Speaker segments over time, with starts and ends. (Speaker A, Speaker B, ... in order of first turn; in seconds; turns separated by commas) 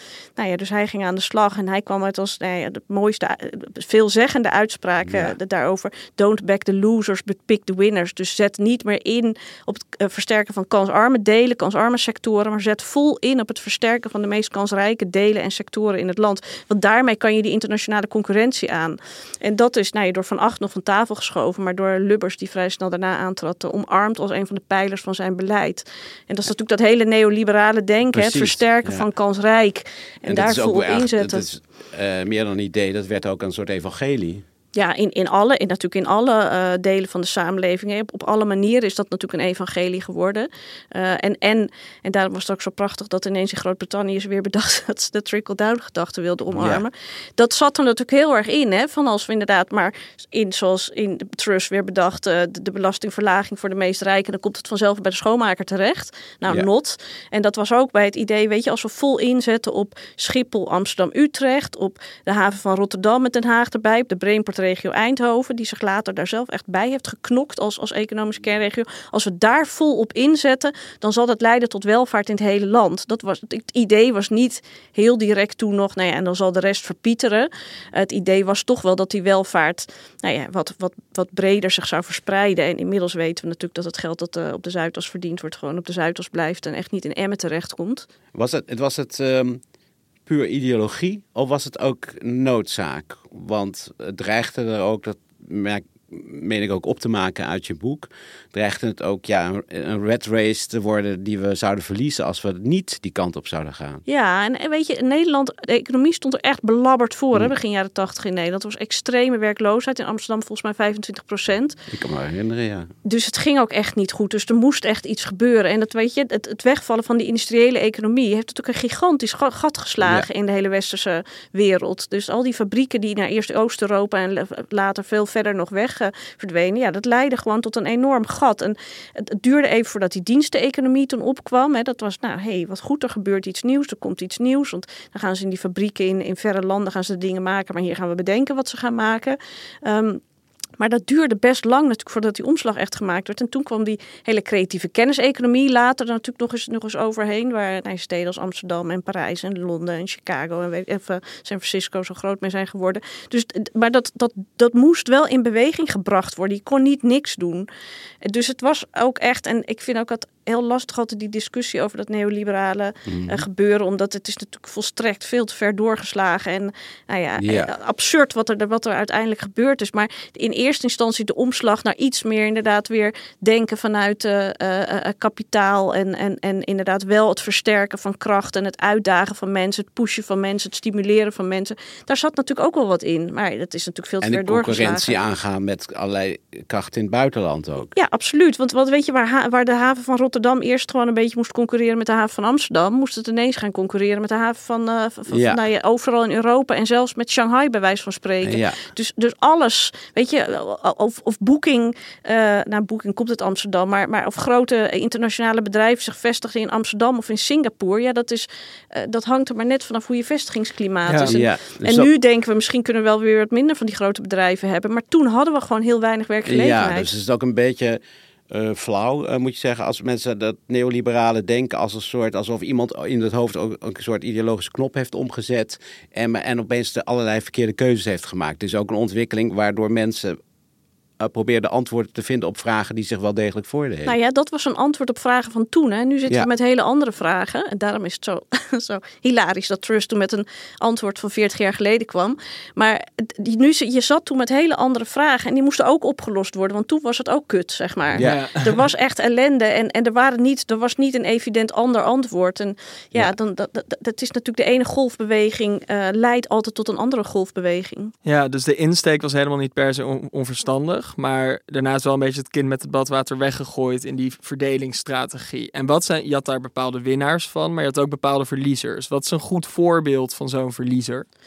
Speaker A: 0.4-31.5, Speaker B: 5.0-5.3, Speaker B: 28.1-29.1, Speaker B: 30.2-34.4, Speaker A: 34.7-88.1, Speaker B: 46.5-46.8, Speaker B: 88.3-89.6, Speaker B: 90.2-104.0, Speaker A: 104.1-111.8, Speaker B: 111.9-112.9, Speaker A: 113.0-140.2, Speaker B: 120.0-120.3, Speaker A: 140.8-157.7, Speaker A: 158.2-185.2, Speaker B: 163.1-163.4, Speaker B: 167.4-167.7, Speaker B: 184.2-187.9, Speaker A: 187.9-217.1, Speaker B: 195.3-195.6, Speaker B: 198.4-198.8, Speaker C: 211.1-211.3, Speaker B: 211.2-212.1, Speaker B: 216.4-230.4, Speaker B: 231.2-234.1, Speaker A: 234.1-258.1, Speaker C: 248.2-248.8, Speaker C: 258.2-271.2